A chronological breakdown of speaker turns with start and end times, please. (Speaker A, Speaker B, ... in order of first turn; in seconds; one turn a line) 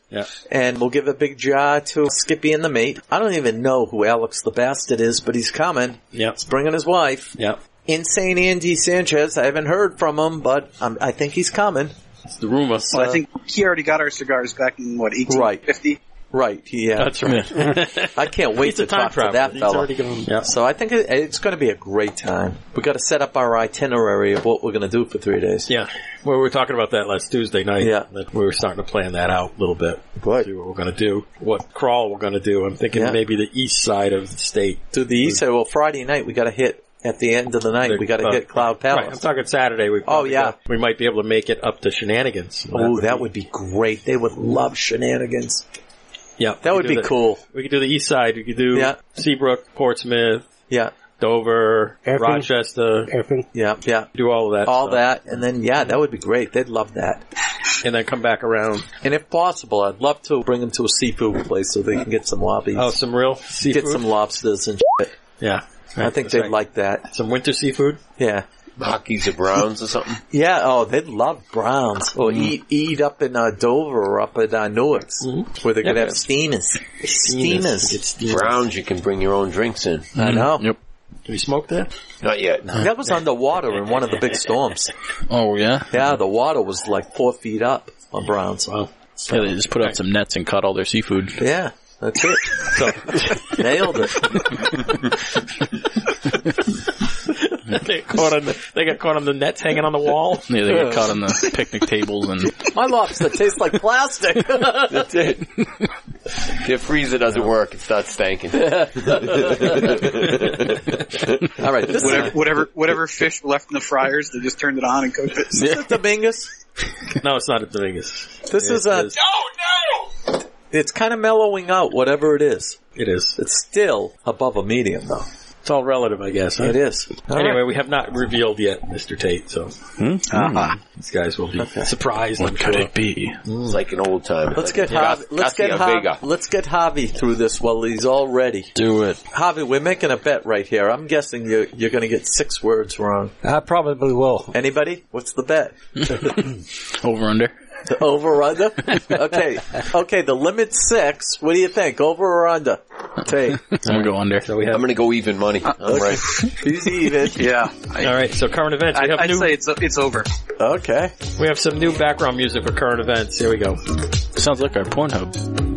Speaker A: 0.5-11.9
Speaker B: 12.3-13.2
Speaker C: 12.9-16.0
Speaker A: 15.3-15.6
Speaker A: 16.3-25.7
Speaker B: 17.0-20.5
Speaker B: 25.7-35.4
Speaker A: 27.8-28.1
Speaker A: 30.2-30.5
Speaker A: 32.9-33.2
Speaker A: 34.9-39.2
Speaker B: 37.9-43.3
Speaker A: 40.1-40.6
Speaker A: 42.7-45.6
Speaker B: 46.4-50.5
Speaker A: 46.6-47.4
Speaker B: 51.2-53.1
Speaker D: 52.0-52.5
Speaker D: 53.1-53.5
Speaker A: 53.5-54.1
Speaker B: 54.1-55.0
Speaker A: 54.6-57.2
Speaker B: 57.8-58.9
Speaker A: 59.0-63.0
Speaker B: 62.8-64.1
Speaker A: 63.6-65.1
Speaker B: 65.4-66.5
Speaker A: 66.0-67.1
Speaker B: 67.1-68.0
Speaker A: 68.2-68.5
Speaker E: 68.8-70.2
Speaker A: 70.3-78.0
Speaker B: 75.2-76.2
Speaker B: 77.1-78.6
Speaker E: 78.2-80.1
Speaker A: 80.2-80.7
Speaker F: 80.2-80.8
Speaker B: 81.3-81.9
Speaker E: 82.2-82.9
Speaker A: 82.8-84.9
Speaker F: 85.3-86.0
Speaker A: 85.9-88.7
Speaker F: 89.3-91.4
Speaker A: 91.4-94.5
Speaker B: 92.7-93.6
Speaker B: 97.3-100.5
Speaker F: 100.5-102.7
Speaker A: 102.7-105.1
Speaker E: 104.8-105.4
Speaker E: 106.6-111.3
Speaker A: 111.6-112.4
Speaker C: 111.9-115.7
Speaker A: 115.5-116.5
Speaker B: 117.2-119.2
Speaker A: 118.5-119.2
Speaker A: 120.7-122.8
Speaker B: 123.0-123.4
Speaker A: 123.4-125.3
Speaker B: 125.6-129.7
Speaker A: 126.6-127.6
Speaker F: 130.0-130.8
Speaker B: 130.8-132.9
Speaker A: 131.6-131.9
Speaker F: 132.4-133.4
Speaker A: 133.5-133.8
Speaker E: 133.6-136.2
Speaker A: 134.6-138.7
Speaker F: 138.8-139.2
Speaker A: 139.3-143.3
Speaker D: 143.4-144.6
Speaker A: 144.5-146.3
Speaker F: 146.1-147.5
Speaker A: 147.8-153.7
Speaker F: 153.8-154.5
Speaker B: 153.8-154.8
Speaker E: 154.7-156.2
Speaker A: 155.8-157.5
Speaker C: 157.3-158.2
Speaker B: 158.0-159.6
Speaker C: 158.9-160.3
Speaker A: 160.6-161.2
Speaker B: 161.4-163.8
Speaker F: 164.3-165.4